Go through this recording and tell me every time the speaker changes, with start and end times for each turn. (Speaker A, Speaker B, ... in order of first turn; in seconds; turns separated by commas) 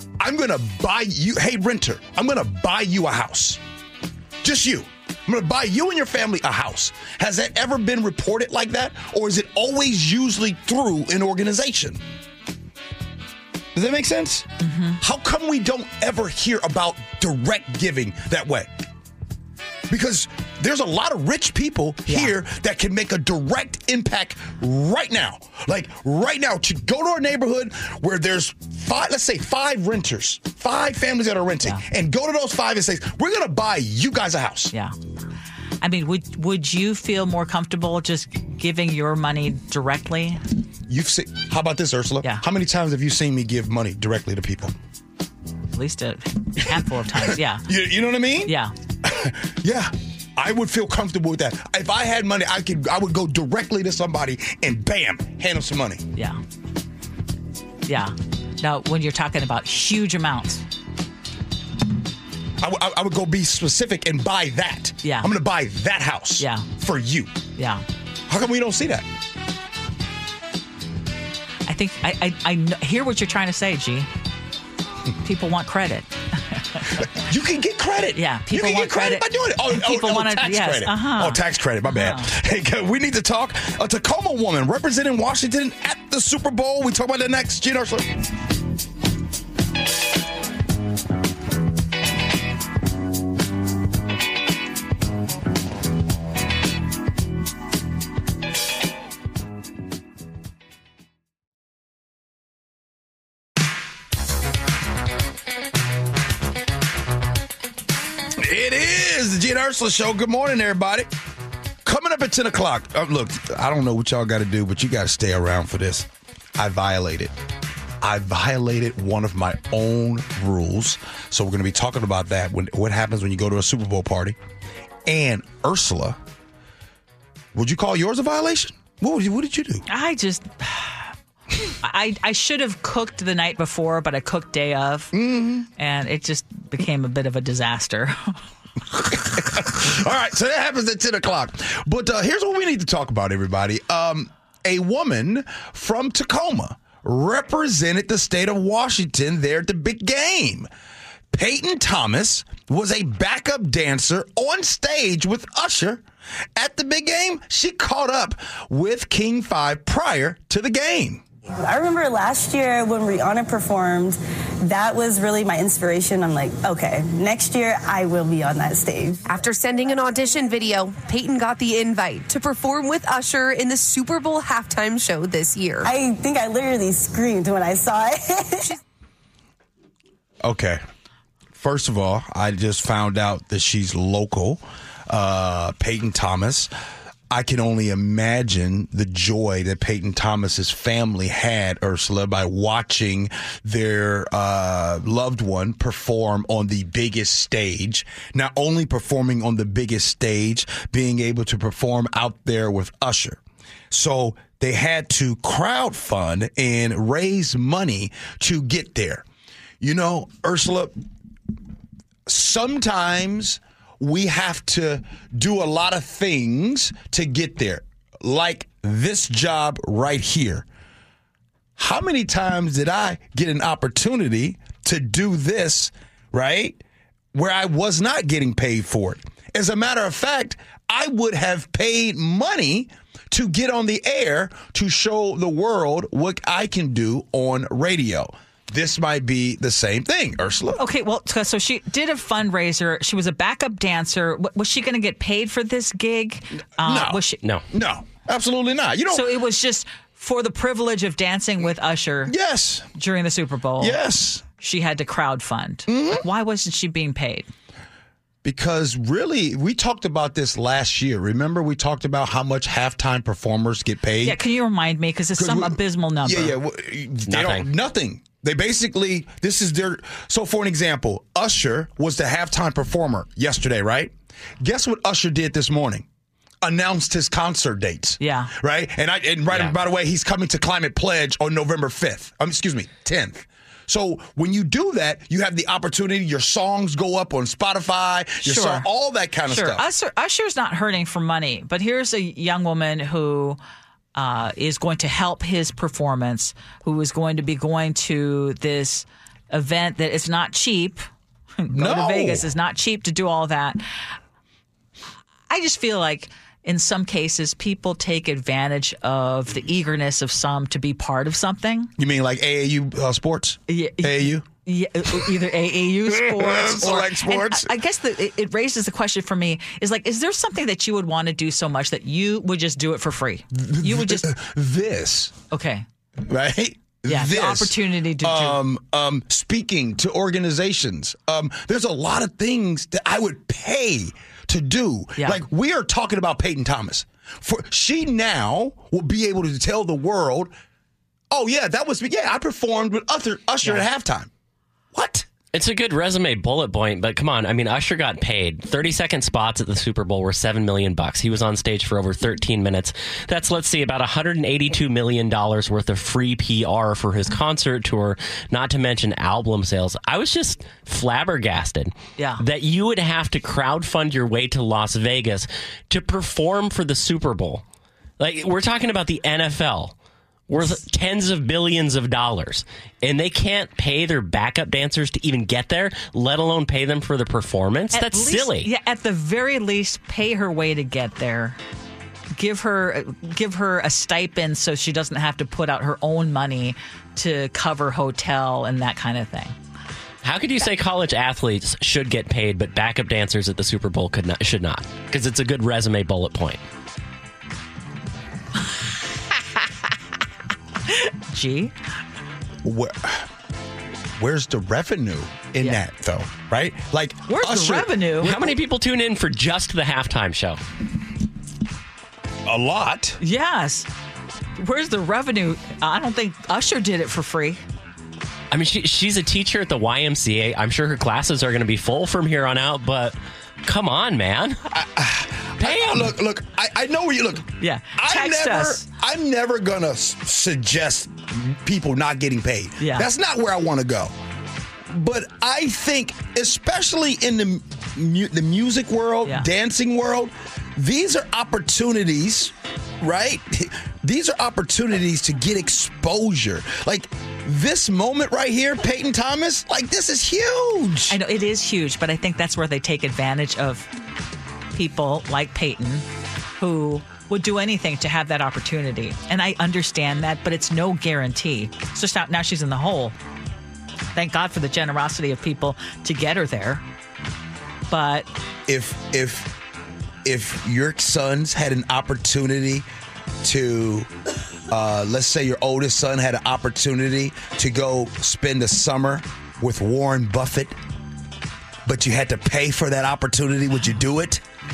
Speaker A: 0.2-3.6, Speaker A: 4.4-12.0, Speaker A: 13.7-18.7, Speaker B: 14.6-15.0, Speaker A: 19.9-34.7, Speaker B: 22.1-22.3, Speaker B: 35.8-40.4, Speaker A: 40.9-44.7, Speaker B: 45.7-47.7, Speaker A: 46.6-56.1, Speaker B: 48.5-48.7, Speaker B: 56.1-56.4, Speaker B: 57.9-60.6, Speaker A: 62.6-67.4, Speaker B: 65.0-65.3, Speaker B: 66.4-66.7, Speaker B: 67.5-67.8, Speaker A: 68.3-69.0, Speaker B: 71.7-74.1, Speaker B: 75.2-77.0, Speaker A: 77.1-88.2, Speaker B: 78.2-82.3, Speaker A: 108.4-111.1, Speaker A: 111.8-117.3, Speaker A: 118.0-124.4, Speaker A: 125.0-126.2, Speaker A: 127.5-129.8, Speaker B: 129.9-135.1, Speaker A: 135.1-135.7, Speaker B: 135.7-138.4, Speaker A: 138.9-150.7, Speaker A: 151.3-156.0, Speaker A: 156.5-161.2, Speaker C: 161.6-169.2, Speaker D: 169.3-175.9, Speaker C: 175.8-178.7, Speaker A: 180.4-180.8, Speaker A: 181.5-186.7, Speaker A: 187.3-209.2, Speaker A: 209.8-210.9, Speaker A: 212.2-220.7, Speaker A: 221.8-226.8, Speaker A: 227.3-240.8, Speaker B: 240.8-247.4, Speaker A: 246.8-249.3, Speaker B: 249.1-252.3, Speaker A: 252.3-252.9, Speaker B: 252.9-254.0, Speaker A: 253.8-254.4, Speaker B: 254.6-257.5, Speaker A: 255.9-256.2, Speaker A: 258.4-264.4, Speaker B: 264.2-266.6, Speaker A: 265.4-276.1, Speaker E: 267.3-267.6, Speaker A: 276.6-289.9, Speaker B: 278.2-278.5, Speaker B: 288.4-288.9, Speaker B: 289.5-293.6, Speaker B: 294.1-301.0, Speaker B: 301.6-303.8, Speaker A: 301.7-302.5, Speaker B: 305.5-311.9, Speaker A: 312.0-314.4, Speaker B: 313.7-324.3, Speaker A: 315.1-315.3, Speaker A: 316.1-317.7, Speaker A: 323.5-325.3, Speaker B: 325.5-325.8, Speaker A: 326.2-340.5, Speaker B: 327.1-328.6, Speaker B: 335.2-335.4, Speaker A: 341.3-344.3, Speaker A: 344.9-345.3, Speaker E: 345.5-367.6, Speaker B: 362.2-362.4, Speaker E: 368.2-369.9, Speaker E: 370.5-378.7, Speaker B: 377.9-381.6, Speaker B: 382.4-389.5, Speaker E: 390.2-396.6, Speaker B: 400.9-401.7, Speaker A: 402.6-403.3, Speaker A: 404.2-408.0, Speaker B: 407.3-408.4, Speaker E: 408.2-410.6, Speaker A: 412.4-413.2, Speaker B: 413.2-413.9, Speaker B: 414.6-417.6, Speaker E: 418.5-424.6, Speaker A: 424.7-434.1, Speaker B: 427.6-428.9, Speaker B: 432.8-433.1, Speaker A: 434.9-451.2, Speaker B: 451.1-453.9, Speaker B: 454.7-456.0, Speaker B: 456.6-463.1, Speaker B: 464.1-466.8, Speaker B: 467.9-468.3, Speaker A: 468.7-469.6, Speaker A: 470.2-472.9, Speaker A: 473.4-474.1, Speaker A: 474.7-480.8, Speaker A: 481.8-484.4